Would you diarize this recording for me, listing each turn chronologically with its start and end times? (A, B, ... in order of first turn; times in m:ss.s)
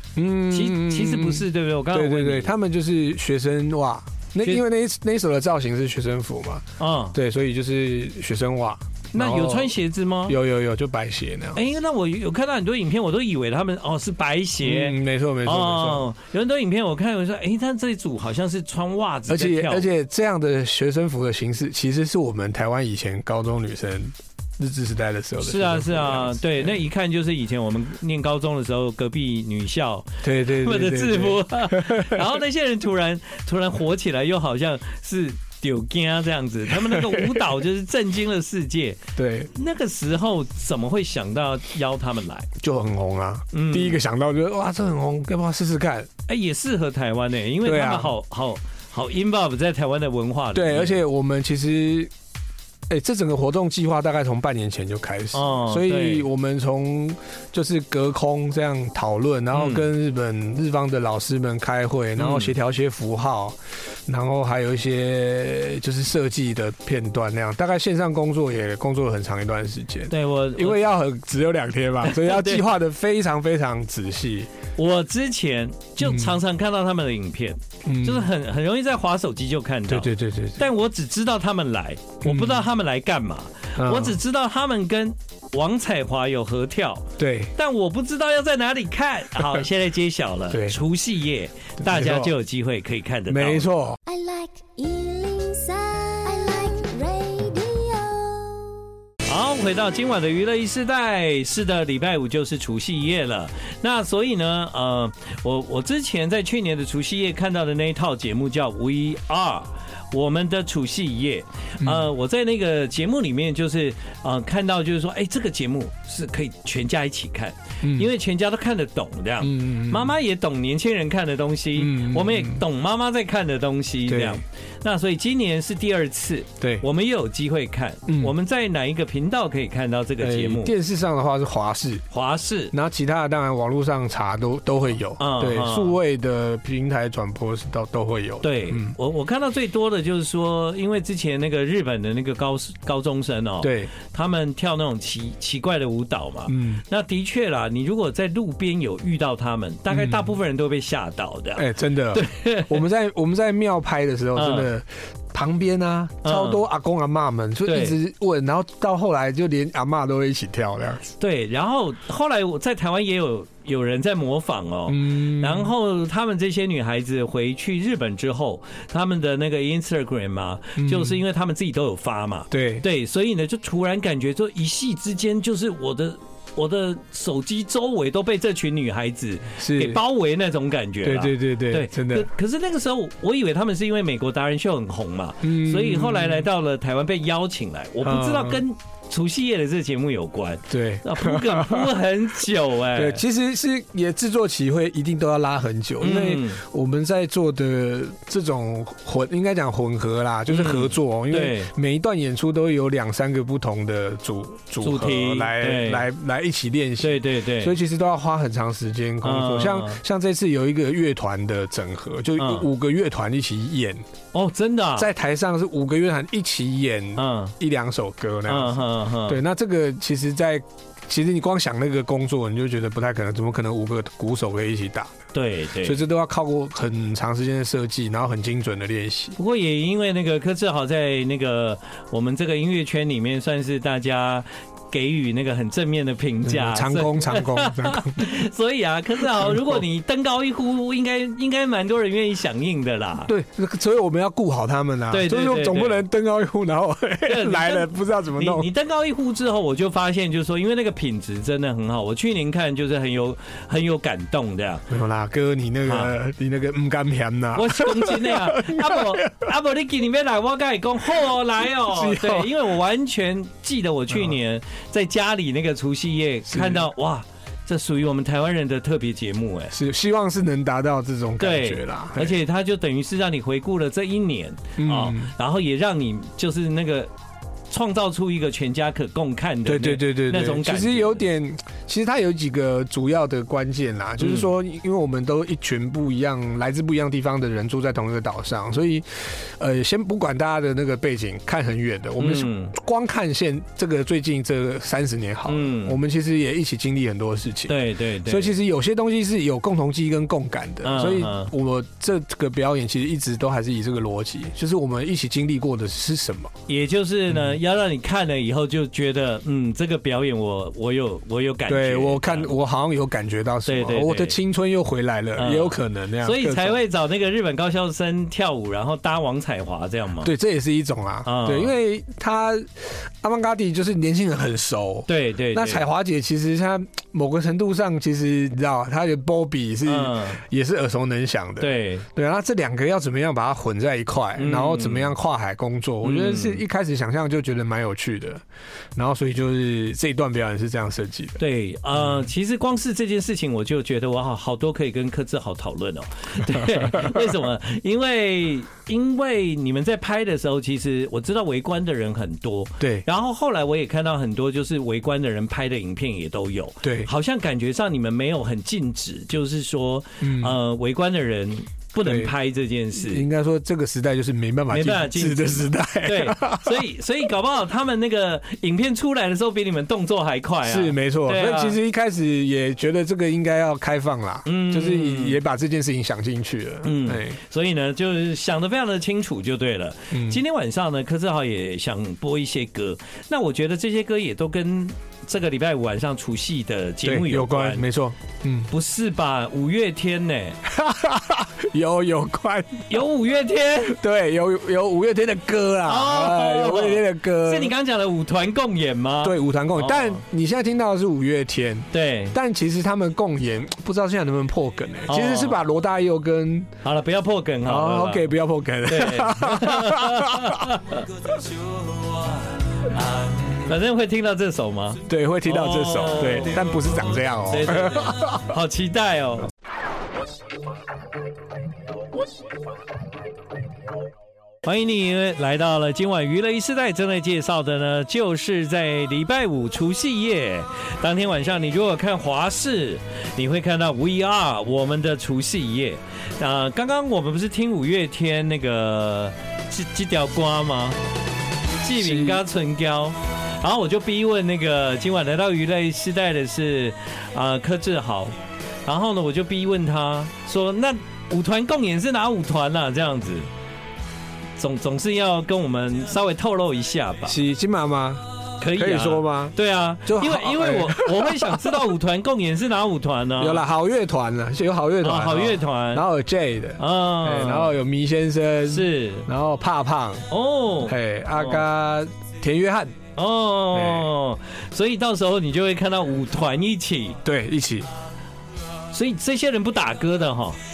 0:00.2-0:09.7 A
0:00.5-0:02.5 B
0:06.8-0:07.2 B
0:09.1-0:10.4 B
0:10.3-0:11.6 A
0:11.5-0:19.8 B
0:14.6-0:16.0 A
0:19.3-0:26.7 A
0:25.4-0:39.0 B
0:30.2-0:32.3 A
0:36.8-0:37.4 A
0:39.2-0:39.5 A
0:39.5-0:42.5 B
0:42.6-0:46.1 A
0:43.5-0:44.0 B
0:46.3-0:51.0 B
0:47.6-0:48.2 A
0:50.5-0:52.1 A
0:52.9-1:14.5 A
0:55.3-0:56.3 B
0:59.5-0:59.9 B
1:02.2-1:02.5 B
1:10.1-1:10.8 B
1:12.0-1:12.6 B
1:14.8-1:33.7 B
1:16.0-1:16.4 A
1:17.8-1:18.3 A
1:19.9-1:20.6 A
1:22.2-1:22.7 A
1:23.8-1:24.2 A
1:27.2-1:27.5 A
1:30.5-1:30.8 A
1:31.8-1:32.3 A
1:33.3-1:34.0 A
1:34.0-1:38.8 C
1:39.2-2:10.7 B
1:51.8-1:52.1 A
1:57.8-1:58.1 A
1:59.4-2:00.1 A
2:01.8-2:02.6 A
2:04.1-2:04.4 A
2:08.1-2:08.3 A
2:10.2-2:12.0 A
2:12.1-2:12.7 B
2:12.7-2:18.9 A
2:15.2-2:16.0 B
2:18.4-2:32.8 B
2:23.6-2:23.9 A
2:26.5-2:26.8 A
2:29.9-2:30.3 A
2:31.6-2:41.0 A
2:34.3-2:34.7 B
2:36.2-2:36.6 B
2:37.6-2:38.0 B
2:41.2-3:13.2 B
2:44.9-2:45.7 A
2:50.8-2:51.2 A
2:52.5-2:52.8 A
2:59.6-3:00.0 A
3:01.0-3:02.3 A
3:05.4-3:06.4 A
3:08.0-3:08.6 A
3:10.7-3:11.9 A
3:12.9-3:34.0 A
3:16.0-3:16.6 B
3:20.5-3:21.7 B
3:24.8-3:26.0 B
3:27.0-3:27.7 B
3:29.2-3:30.0 B
3:32.4-3:32.7 B
3:34.3-3:35.1 B
3:35.0-3:45.1 A
3:37.2-3:37.5 B
3:38.5-3:39.4 B
3:45.3-3:46.0 B
3:45.8-3:49.4 A
3:49.4-4:03.3 B
3:56.4-3:58.4 A
3:59.2-3:59.8 A
4:03.3-4:08.7 A
4:05.1-4:06.0 B
4:07.2-4:14.9 B
4:14.9-4:19.5 A
4:15.8-4:16.1 B
4:17.5-4:29.7 B
4:21.2-4:22.6 A
4:26.5-4:26.9 A
4:29.7-4:32.4 A
4:31.4-4:37.1 B
4:34.8-4:35.3 A
4:37.7-4:41.2 B
4:39.6-5:06.5 A
4:44.2-4:44.5 B
4:52.2-4:52.7 B
4:55.5-4:56.0 B
4:57.7-4:58.5 B
5:00.8-5:01.5 B
5:06.7-5:12.5 B
5:07.3-5:07.6 A
5:11.7-5:16.8 A
5:13.6-5:14.4 B
5:15.4-5:20.3 B
5:20.2-5:38.4 A
5:21.2-5:21.7 B
5:25.1-5:25.8 B
5:29.8-5:30.4 B
5:31.6-5:32.0 B
5:34.4-5:35.1 B
5:36.0-5:36.6 B
5:39.0-5:41.4 A
5:41.4-6:03.2 B
5:42.0-5:42.2 A
5:46.5-5:47.3 A
5:56.8-5:57.1 A
6:00.2-6:00.6 A
6:02.0-6:02.3 A
6:02.9-6:06.8 A
6:04.7-6:11.8 B
6:10.6-6:17.4 A
6:14.4-6:15.4 B
6:16.8-6:27.9 B
6:20.1-6:20.4 A
6:27.0-6:28.7 A
6:28.7-6:30.6 B
6:30.6-6:33.0 A
6:32.9-6:34.0 B
6:33.8-6:37.7 A
6:35.8-6:40.2 B
6:39.2-6:46.7 A
6:41.9-6:42.4 B
6:45.1-6:45.6 B
6:46.8-6:48.3 B
6:47.6-6:50.8 A
6:48.9-6:51.1 B
6:52.8-6:56.7 B
6:55.0-6:58.5 A
6:57.5-6:59.5 B
7:04.6-7:21.0 B
7:21.8-7:28.3 B
7:21.9-7:22.4 A
7:28.8-7:33.5 B
7:34.6-7:37.4 B
7:37.2-7:41.8 A
7:38.6-7:43.6 B
7:43.4-7:50.2 A
7:45.0-7:46.0 B
7:46.8-7:47.7 B
7:48.7-7:49.3 B
7:50.3-7:51.6 B
7:50.8-7:52.9 A
7:53.2-7:57.2 B
7:53.7-7:54.1 A
7:57.2-7:57.9 A
7:58.9-8:00.6 B